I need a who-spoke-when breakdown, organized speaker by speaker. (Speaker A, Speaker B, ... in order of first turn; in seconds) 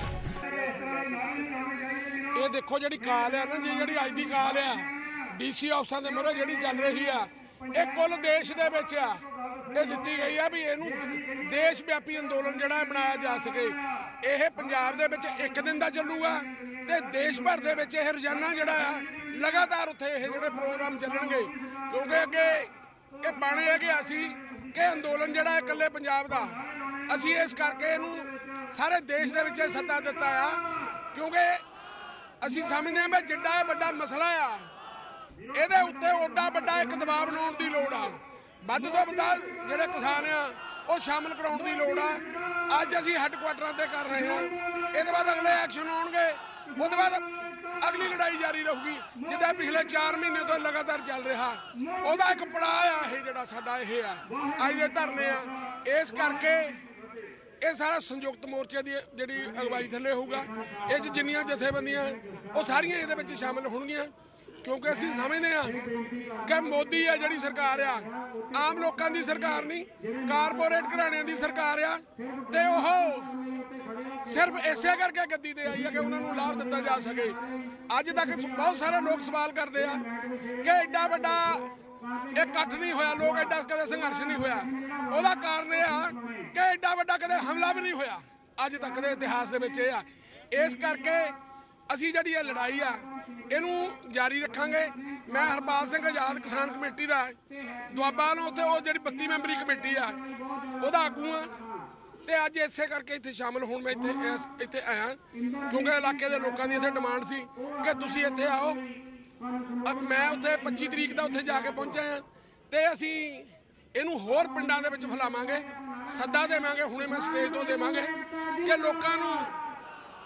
Speaker A: 2.3-31.6, 32.4-34.7, 35.5-47.3, 47.8-56.8, 57.6-64.1, 64.6-65.8, 66.4-73.4, 74.2-80.0, 80.6-81.7, 82.3-91.4, 91.9-100.2, 100.8-101.6, 102.2-108.8, 109.8-119.5